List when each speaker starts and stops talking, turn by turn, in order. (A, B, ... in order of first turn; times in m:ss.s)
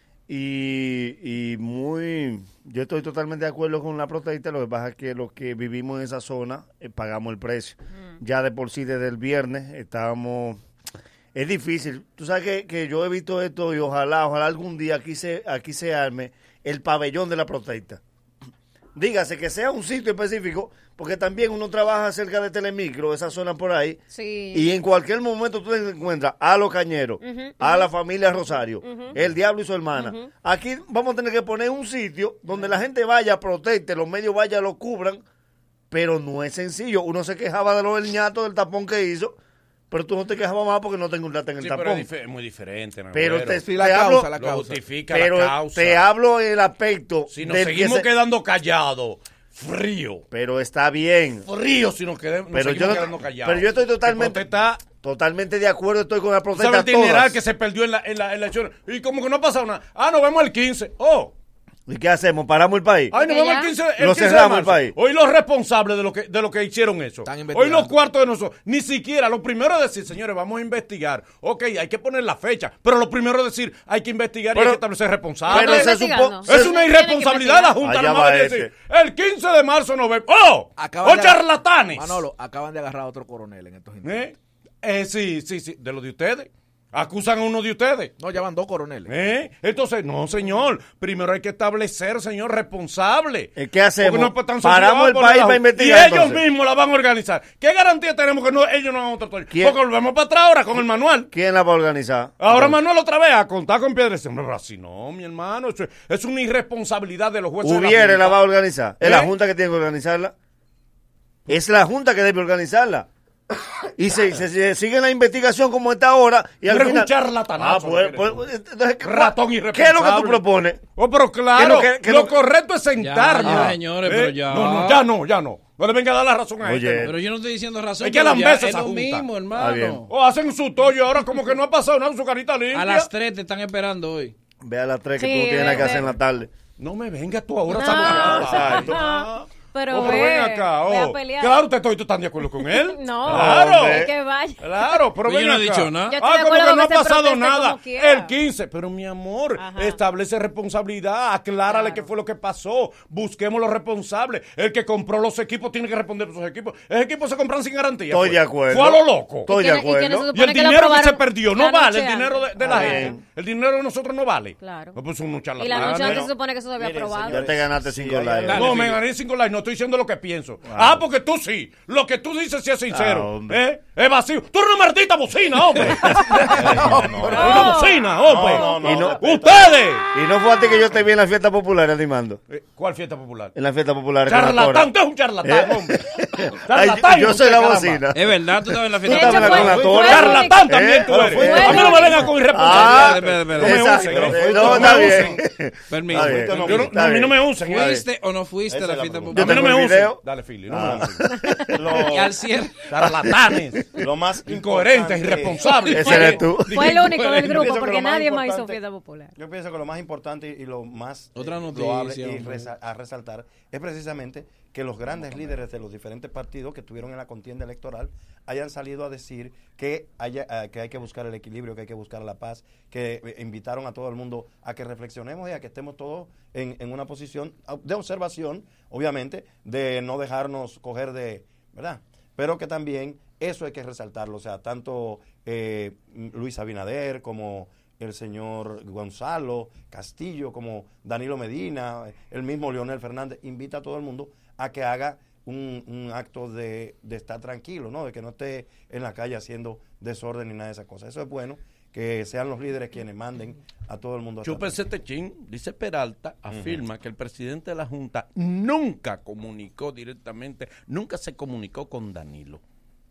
0:00.3-0:10.6 A
0:11.3-0:18.0 A
0:19.0-0:35.2 A
0:24.1-0:24.7 B
0:27.2-0:27.9 B
0:28.8-0:29.2 B
0:29.9-0:30.3 B
0:35.9-0:39.4 A
0:39.9-0:42.1 A
0:41.6-0:43.6 C
0:43.1-0:44.3 A
0:43.6-0:44.8 D
0:44.4-0:46.1 C
0:45.1-0:48.1 A
0:47.3-0:50.2 C
0:50.3-0:51.5 A
0:51.4-0:54.8 C
0:52.5-0:57.4 A
0:56.6-1:01.3 C
1:01.9-1:03.2 A
1:03.1-1:22.2 C
1:03.1-1:03.8 B
1:04.0-1:04.9 A
1:07.2-1:07.9 D
1:14.5-1:14.8 A
1:15.5-1:16.6 A
1:15.5-1:17.8 B
1:17.8-1:18.7 A
1:20.8-1:24.3 D
1:24.0-1:28.2 C
1:28.2-1:29.2 D
1:29.1-1:41.3 C
1:33.6-1:36.4 A
1:39.5-1:39.8 A
1:41.3-1:42.8 A
1:42.4-1:48.4 C
1:47.6-1:50.3 A
1:49.0-1:49.3 C
1:51.5-1:53.1 A
1:54.0-2:00.8 A
1:56.7-1:58.4 C
1:59.0-2:00.4 C
2:01.0-2:07.1 C
2:01.6-2:02.3 A
2:03.0-2:05.0 E
2:03.4-2:03.7 A
2:06.6-2:07.2 A
2:07.0-2:10.1 E
2:08.0-2:09.3 C
2:09.6-2:10.0 A
2:10.1-2:13.1 C
2:12.7-2:14.4 E
2:14.6-2:16.5 A
2:15.2-2:16.1 B
2:16.8-2:39.5 C
2:17.7-2:21.6 B
2:18.0-2:19.0 A
2:22.6-2:25.0 B
2:23.3-2:24.1 A
2:25.2-2:26.2 E
2:26.0-2:28.3 B
2:29.6-2:30.0 B
2:31.7-2:32.1 B
2:38.1-2:40.3 A
2:39.5-2:43.2 B
2:40.3-2:46.3 C
2:42.6-2:43.2 A
2:44.6-2:45.0 B
2:45.6-2:47.6 B
2:45.7-2:48.6 F
2:47.2-2:48.9 A
2:48.4-2:49.0 E
2:48.5-3:00.1 C
2:50.6-2:51.0 A
2:52.9-2:53.6 A
2:55.9-2:57.6 F
2:56.7-2:57.5 D
2:57.2-2:58.8 B
2:58.2-2:59.8 F
2:58.7-2:59.2 A
3:00.1-3:02.4 A
3:02.5-3:03.6 C
3:03.6-3:04.9 A
3:04.3-3:08.0 C
3:05.4-3:08.3 A
3:08.1-3:09.8 E
3:09.0-3:18.0 A
3:09.0-3:10.7 B
3:09.4-3:15.4 C
3:11.1-3:11.7 F
3:11.2-3:12.5 B
3:12.5-3:14.0 E
3:13.8-3:15.3 F
3:15.9-3:16.6 E
3:16.1-3:16.9 F
3:16.6-3:18.0 C
3:17.6-3:19.7 E
3:18.7-3:19.5 F
3:19.3-3:21.3 C
3:19.3-3:20.2 A
3:20.7-3:21.2 F
3:21.4-3:21.6 B
3:21.7-3:22.4 F
3:21.9-3:22.8 E
3:22.8-3:23.9 C
3:24.0-3:25.8 F
3:24.5-3:27.7 C
3:25.9-3:26.9 A
3:26.2-3:29.4 B
3:27.4-3:28.8 F
3:29.4-4:14.8 F
3:31.4-3:32.7 E
4:14.4-4:22.6 C
4:16.5-4:16.8 F